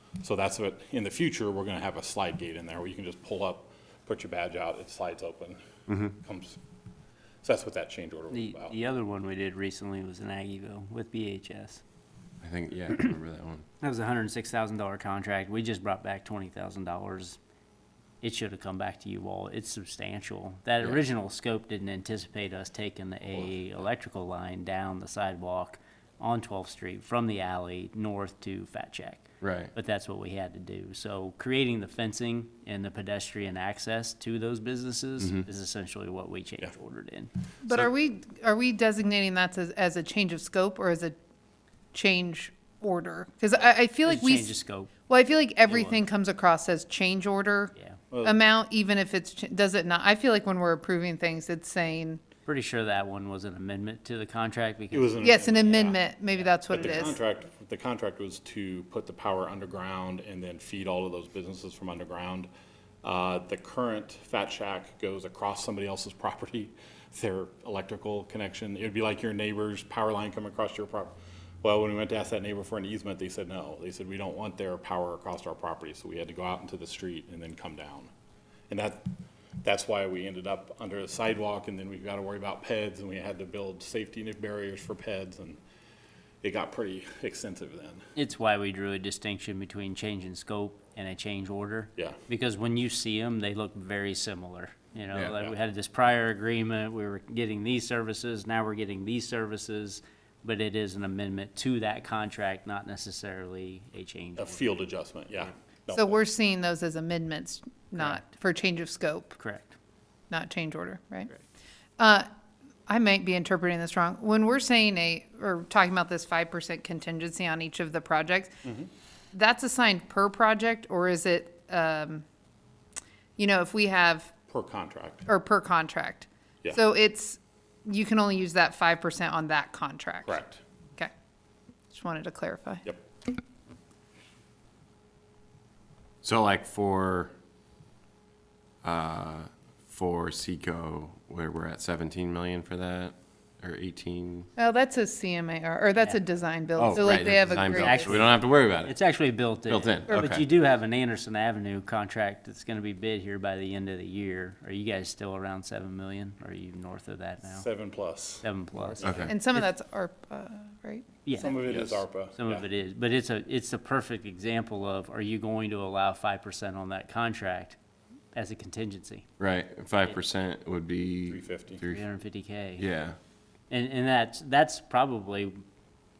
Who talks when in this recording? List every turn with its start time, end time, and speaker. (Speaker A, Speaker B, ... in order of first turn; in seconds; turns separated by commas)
Speaker A: 0.2-5.6, Speaker B: 5.9-6.1, Speaker A: 6.1-6.6, Speaker A: 7.4-8.8, Speaker C: 8.3-11.8, Speaker B: 12.4-13.7, Speaker C: 13.8-17.4, Speaker C: 18.2-37.3, Speaker B: 29.4-29.7, Speaker B: 35.2-35.4, Speaker D: 37.6-41.1, Speaker D: 41.9-44.5, Speaker C: 44.0-44.9, Speaker D: 45.1-52.2, Speaker C: 45.7-46.0, Speaker A: 48.1-48.4, Speaker C: 52.5-55.1, Speaker A: 54.9-56.0, Speaker D: 55.2-57.2, Speaker C: 56.4-57.1, Speaker A: 56.7-62.5, Speaker A: 63.0-78.1, Speaker A: 78.7-79.1, Speaker A: 79.6-85.6, Speaker A: 86.4-88.0, Speaker C: 88.2-104.7, Speaker A: 104.4-106.2, Speaker D: 105.9-109.4, Speaker C: 108.0-108.2, Speaker C: 109.4-109.7, Speaker D: 110.3-111.3, Speaker D: 112.0-112.3, Speaker D: 112.9-118.5, Speaker D: 119.3-122.2, Speaker D: 123.4-124.3, Speaker A: 124.5-125.3, Speaker D: 125.3-130.4, Speaker A: 130.2-130.6, Speaker D: 131.9-132.9, Speaker B: 136.2-137.3, Speaker B: 138.8-144.5, Speaker D: 144.6-148.3, Speaker B: 146.8-148.9, Speaker C: 146.8-157.7, Speaker B: 149.7-150.4, Speaker A: 157.5-159.3, Speaker C: 158.4-159.7, Speaker B: 159.0-159.3, Speaker D: 159.3-161.6, Speaker C: 161.2-161.6, Speaker A: 161.3-162.6, Speaker B: 161.7-162.0, Speaker C: 162.3-167.8, Speaker C: 168.3-169.2, Speaker B: 169.4-172.0, Speaker A: 171.3-171.8, Speaker C: 171.8-172.8, Speaker B: 172.8-173.2, Speaker C: 173.7-175.6